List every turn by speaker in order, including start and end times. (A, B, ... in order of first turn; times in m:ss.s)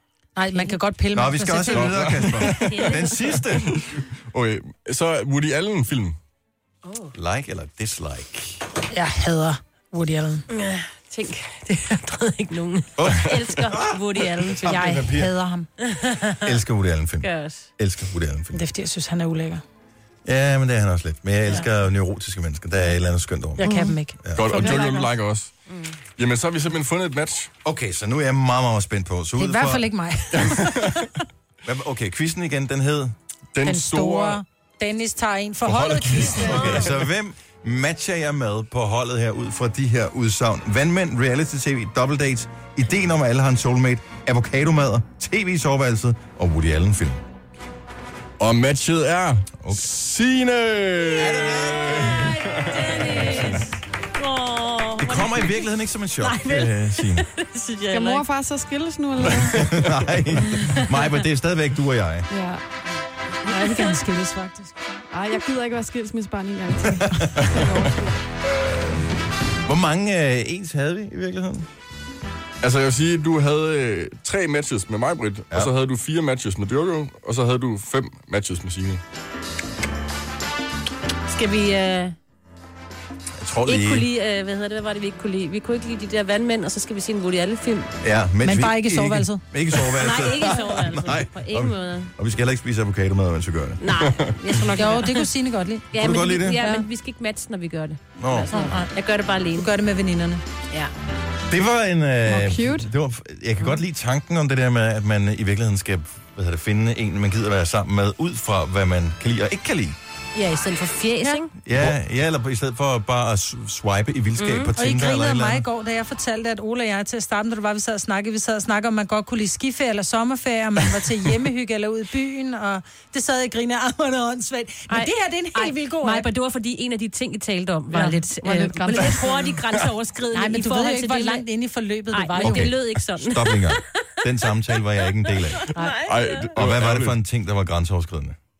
0:00.4-0:02.3 A
0:01.2-0:03.7 B
0:01.7-0:06.2 C
0:02.7-0:03.2 D
0:06.8-0:07.1 D
0:07.1-0:08.6 B
0:08.9-0:10.5 A
0:10.5-0:15.0 D
0:13.0-0:15.3 B
0:14.7-0:15.7 A
0:15.8-0:16.6 D
0:16.4-0:18.6 B
0:17.2-0:17.7 D
0:18.5-0:19.6 A
0:20.2-0:24.5 B
0:23.6-0:24.2 A
0:23.6-0:24.0 E
0:24.3-0:25.5 C
0:24.5-0:25.2 E
0:25.7-0:26.0 D
0:26.1-0:27.5 C
0:27.6-0:29.9 B
0:29.4-0:31.1 A
0:30.3-0:31.1 C
0:31.6-0:33.2 B
0:33.5-0:34.4 C
0:33.6-0:36.8 A
0:35.7-0:36.9 C
0:36.5-0:47.2 B
0:36.5-0:36.9 D
0:48.4-0:53.5 C
0:49.6-0:49.9 B
0:51.1-0:52.6 B
0:52.0-0:55.7 D
0:53.2-0:53.6 B
0:55.0-0:57.3 B
0:56.2-0:58.2 D
0:57.9-0:59.7 E
0:59.3-1:02.3 B
1:00.4-1:00.8 E
1:02.3-1:02.6 E
1:03.4-1:05.0 A
1:05.1-1:08.2 E
1:07.4-1:07.7 C
1:09.7-1:11.7 B
1:12.6-1:19.0 C
1:21.3-1:22.2 D
1:23.4-1:24.1 B
1:23.7-1:27.9 D
1:28.0-1:33.8 B
1:28.4-1:29.4 A
1:30.0-1:32.1 D
1:33.8-1:35.3 D
1:34.0-1:34.4 C
1:34.8-1:35.9 A
1:35.9-1:39.7 D
1:36.0-1:36.6 B
1:38.2-1:38.5 B
1:38.5-1:38.9 A
1:39.6-1:40.4 A
1:41.5-1:50.0 B
1:42.3-1:42.9 E
1:50.4-1:51.6 D
1:51.7-1:55.6 B
1:54.4-1:54.7 D
1:54.8-2:06.3 A
2:04.9-2:11.4 D
2:07.9-2:08.2 A
2:08.4-2:09.6 E
2:10.3-2:12.7 A
2:12.1-2:14.0 D
2:12.4-2:15.6 B
2:15.5-2:16.6 D
2:16.0-2:17.2 C
2:16.6-2:18.4 B